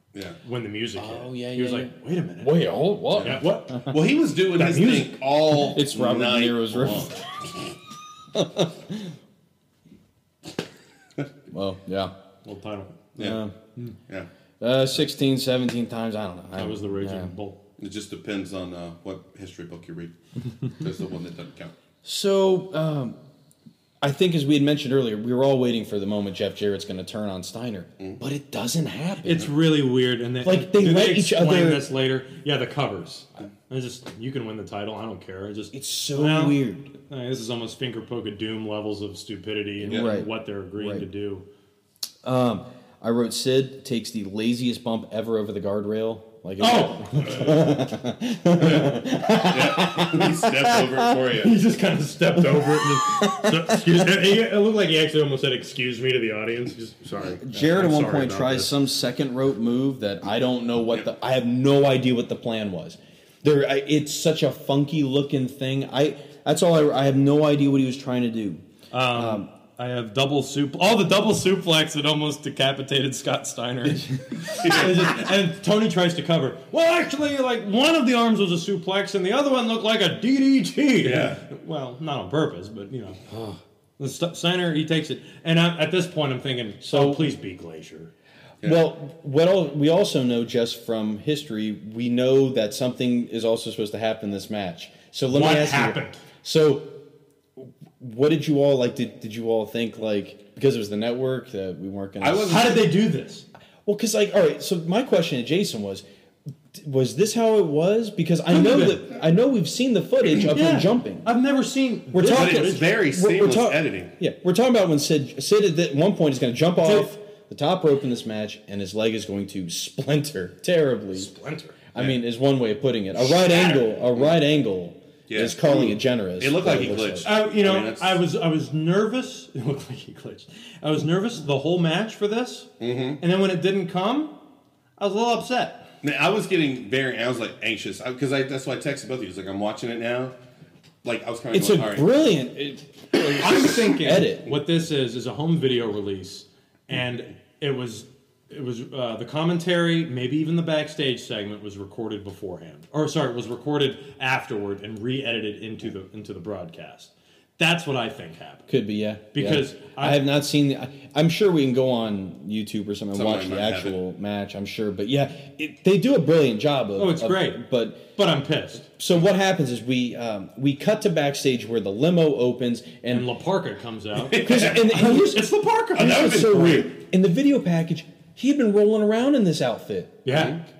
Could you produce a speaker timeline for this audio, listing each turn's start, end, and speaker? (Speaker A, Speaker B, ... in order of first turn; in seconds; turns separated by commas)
Speaker A: 0.4-3.9, Speaker B: 0.9-3.9, Speaker C: 3.1-7.2, Speaker A: 4.6-5.2, Speaker B: 5.5-7.2, Speaker B: 8.3-9.1, Speaker B: 11.5-12.1, Speaker A: 12.4-13.1, Speaker B: 13.2-13.5, Speaker B: 14.6-17.3, Speaker A: 16.6-17.6, Speaker C: 17.8-21.7, Speaker B: 22.0-23.2, Speaker B: 24.0-29.5, Speaker A: 29.2-41.5, Speaker B: 30.4-31.8, Speaker B: 35.7-36.9, Speaker B: 39.8-41.0, Speaker B: 42.2-51.2, Speaker A: 46.6-47.6, Speaker C: 47.3-47.5, Speaker C: 48.6-51.6, Speaker A: 51.4-58.7, Speaker B: 52.4-54.0, Speaker B: 57.4-69.5, Speaker A: 68.9-83.3, Speaker C: 74.6-75.1, Speaker C: 81.0-81.4, Speaker B: 83.3-83.6, Speaker A: 84.0-88.1, Speaker B: 86.8-87.3, Speaker B: 88.6-97.0, Speaker A: 95.3-96.2, Speaker B: 97.6-102.8, Speaker C: 102.2-102.8, Speaker A: 102.5-103.5, Speaker B: 103.8-106.0, Speaker B: 106.7-111.3, Speaker A: 108.5-109.0, Speaker A: 110.5-112.9, Speaker B: 112.1-121.3, Speaker C: 112.3-114.1, Speaker A: 116.8-117.1, Speaker A: 121.1-121.8, Speaker B: 121.9-127.3, Speaker C: 125.3-128.2, Speaker A: 127.2-132.7, Speaker C: 132.8-133.2, Speaker A: 133.2-134.3, Speaker A: 135.0-135.9, Speaker C: 136.0-140.3, Speaker C: 141.0-142.1, Speaker B: 141.5-144.5, Speaker A: 143.3-158.7, Speaker B: 158.7-168.1, Speaker A: 159.3-160.2, Speaker C: 163.1-163.9, Speaker A: 167.0-168.9, Speaker B: 168.9-173.3, Speaker A: 173.1-176.8, Speaker C: 174.2-174.9, Speaker B: 174.4-180.2, Speaker C: 175.9-176.9, Speaker A: 180.2-180.6, Speaker C: 180.3-180.6